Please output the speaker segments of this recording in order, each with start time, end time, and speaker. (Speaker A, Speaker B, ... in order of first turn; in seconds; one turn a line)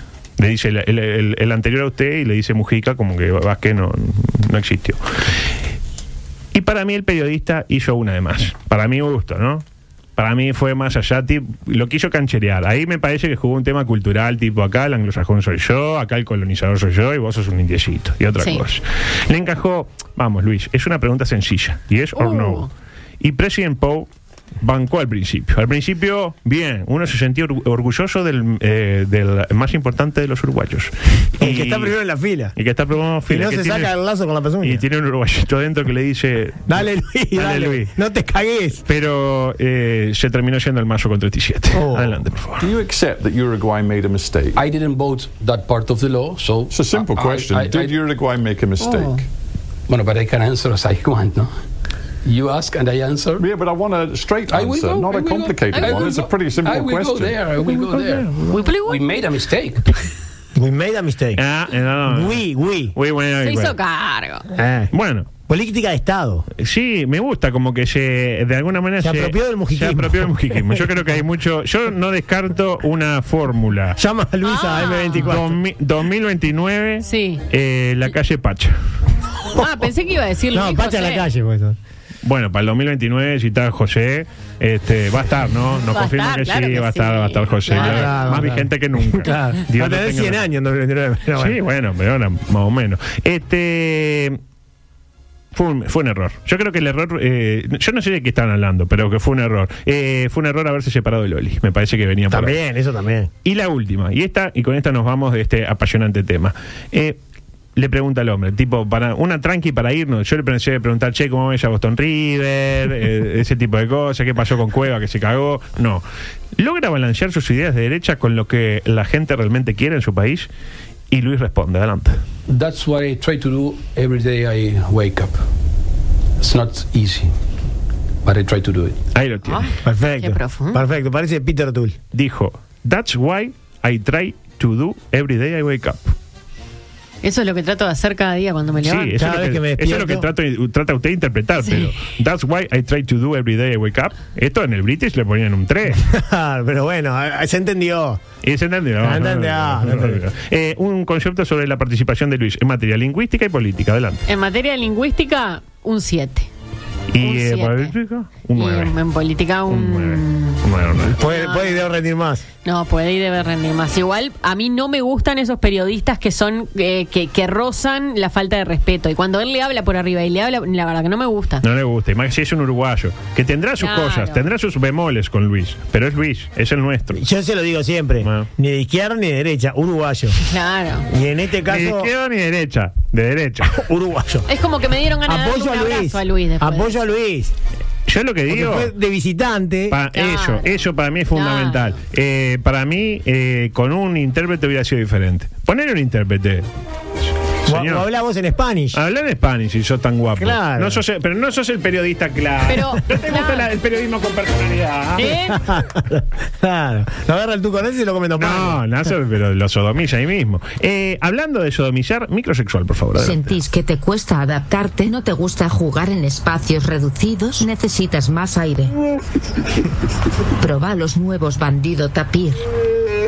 Speaker A: 0.4-5.0
Speaker A: 6.5-9.6
Speaker A: 10.2-22.7
Speaker B: 22.2-22.7
Speaker A: 23.2-24.1
Speaker A: 24.6-32.0
Speaker C: 31.4-32.5
Speaker A: 32.5-33.9
Speaker C: 33.3-34.8
Speaker A: 34.6-37.9
Speaker C: 36.7-38.8
Speaker A: 38.9-42.7
Speaker C: 41.7-42.2
Speaker D: 42.6-44.6
Speaker E: 44.5-48.0
Speaker D: 46.7-49.2
Speaker B: 48.8-49.2
Speaker E: 49.9-51.5
Speaker E: 52.2-53.4
Speaker D: 53.4-57.4
Speaker E: 54.5-60.0
Speaker B: 55.7-56.1
Speaker A: 57.8-58.6
Speaker B: 58.5-59.0
Speaker C: 60.5-61.4
Speaker A: 61.4-62.4
Speaker C: 62.0-63.0
Speaker A: 62.9-63.8
Speaker B: 63.4-64.5
Speaker C: 64.5-64.9
Speaker A: 64.9-65.3
Speaker C: 65.5-66.5
Speaker A: 66.5-74.0
Speaker C: 69.0-71.0
Speaker C: 74.0-75.6
Speaker B: 74.5-75.3
Speaker A: 75.2-78.8
Speaker B: 77.0-77.4
Speaker B: 79.5-81.2
Speaker C: 80.5-81.8
Speaker A: 82.2-90.5
Speaker B: 85.9-88.4
Speaker C: 87.7-91.6
Speaker A: 91.3-94.4
Speaker A: 95.5-102.6
Speaker C: 102.3-103.3
Speaker A: 103.4-107.2
Speaker A: 107.8-116.0
Speaker A: 116.6-120.5
Speaker A: 121.1-122.2
Speaker E: 122.5-125.4
Speaker E: 126.4-127.3
Speaker E: 128.2-129.0
Speaker A: 129.2-129.7
Speaker B: 129.5-130.8
Speaker C: 129.8-132.0
Speaker A: 132.1-136.1
Speaker B: 137.2-139.2
Speaker A: 138.8-146.0
Speaker C: 139.2-140.3
Speaker B: 141.6-141.9
Speaker C: 146.0-148.2
Speaker A: 148.4-154.2
Speaker C: 149.0-150.2
Speaker B: 154.3-156.5
Speaker A: 157.1-158.9
Speaker B: 157.2-157.9
Speaker B: 158.6-160.6
Speaker A: 159.7-161.2
Speaker C: 161.2-162.4
Speaker B: 161.2-161.9
Speaker B: 162.6-171.6
Speaker A: 171.6-177.2
Speaker B: 173.8-174.4
Speaker C: 177.1-180.4
Speaker A: 178.2-178.5
Speaker B: 180.4-181.1
Speaker C: 181.1-182.1
Speaker A: 181.7-183.8
Speaker C: 183.7-184.5
Speaker B: 184.5-186.9
Speaker C: 185.3-187.5
Speaker A: 188.1-188.9
Speaker C: 188.5-190.0
Speaker A: 189.9-196.7
Speaker B: 190.1-190.7
Speaker B: 191.3-191.8
Speaker A: 197.7-198.1
Speaker C: 197.7-199.0
Speaker A: 198.9-205.4
Speaker C: 200.4-201.0
Speaker B: 202.7-203.7
Speaker B: 205.2-205.6
Speaker C: 205.3-208.8
Speaker A: 208.4-213.6
Speaker F: 213.2-219.0
Speaker F: 220.6-222.6